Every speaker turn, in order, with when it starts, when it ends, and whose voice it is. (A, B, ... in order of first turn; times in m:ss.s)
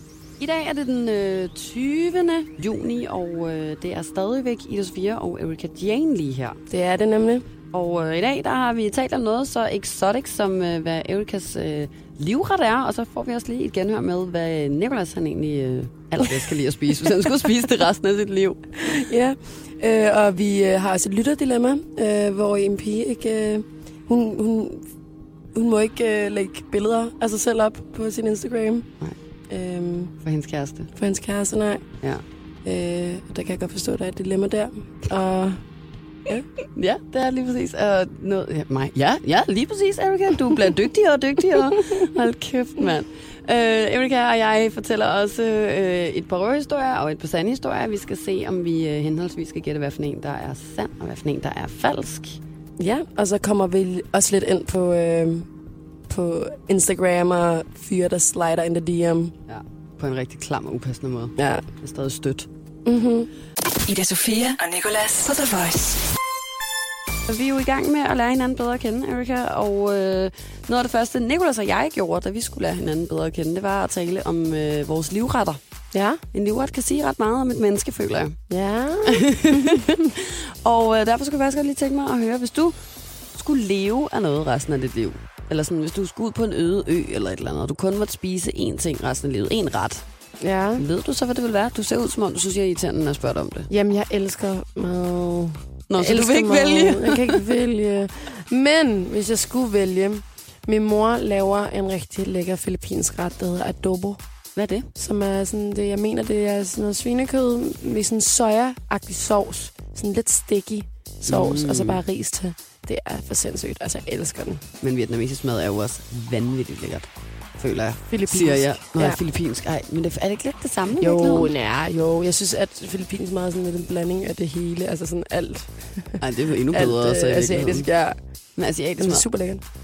0:00.4-0:06.6 A
0:06.7-0:07.5 B
0:07.7-0:18.7 A
0:18.8-0:24.8 B
0:25.5-0:28.9 B
0:29.5-0:30.1 B
0:30.2-0:30.9 A
0:31.0-0:31.8 B
0:32.6-0:35.6 B
0:36.7-0:52.4 A
0:52.8-0:55.4 B
0:56.1-0:59.3 B
0:59.5-1:02.5 A
1:01.4-1:01.6 B
1:02.8-1:03.3 B
1:03.8-1:06.0 C
1:07.3-1:15.6 A
1:15.9-1:16.2 B
1:16.3-1:18.4 A
1:18.5-1:20.0 B
1:19.0-1:22.7 A
1:23.3-1:30.0 A
1:30.4-1:30.8 B
1:30.8-1:33.7 A
1:33.7-1:44.2 B
1:35.9-1:37.5 A
1:44.6-1:44.9 A
1:45.0-1:54.6 B
1:51.2-1:52.0 A
1:54.8-2:01.5 A
1:58.1-1:59.2 B
2:01.0-2:08.2 B
2:06.2-2:07.9 A
2:08.6-2:09.3 A
2:09.0-2:09.6 B